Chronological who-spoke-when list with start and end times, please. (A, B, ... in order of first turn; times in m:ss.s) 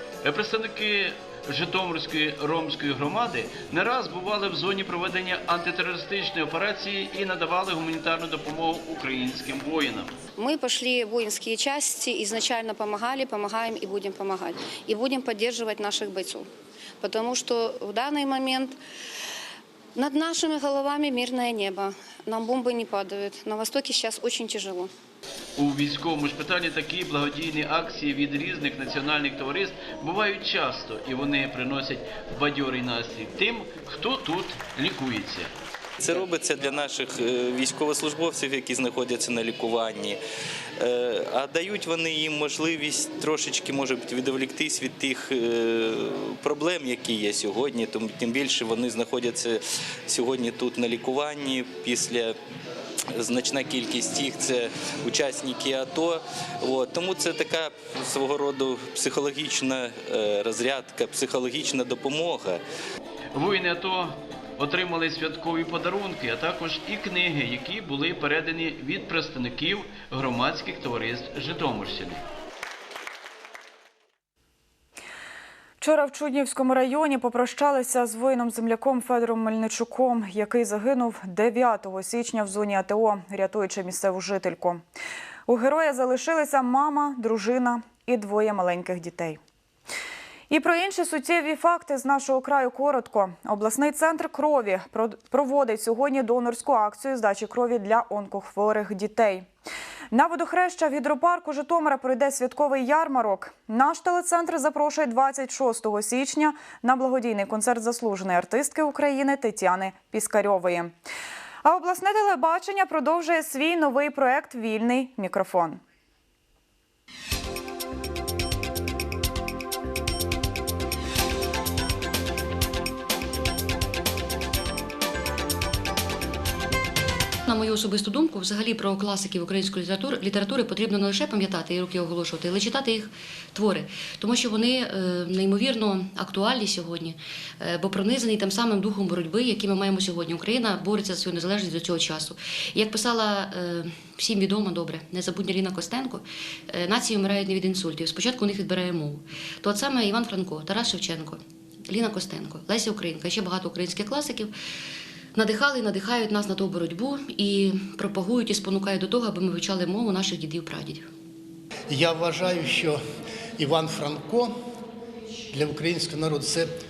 0:00.2-0:10.1 A
0:10.4-0:16.5 B
0:17.0-0:18.8 B
0:20.0-0:24.9 B
0:25.6-0:35.5 A
0:36.0-0:40.2 C
0:40.8-0:52.4 C
0:53.1-1:02.6 C
1:03.3-1:12.2 A
1:15.8-1:24.8 D
1:25.5-1:29.4 D
1:30.5-1:39.5 D
1:40.1-1:50.9 D
1:51.6-1:55.8 D
2:07.5-2:34.5 E
2:35.4-2:41.1 E
2:41.9-2:43.0 F
2:43.6-2:44.5 F
2:45.5-2:46.7 F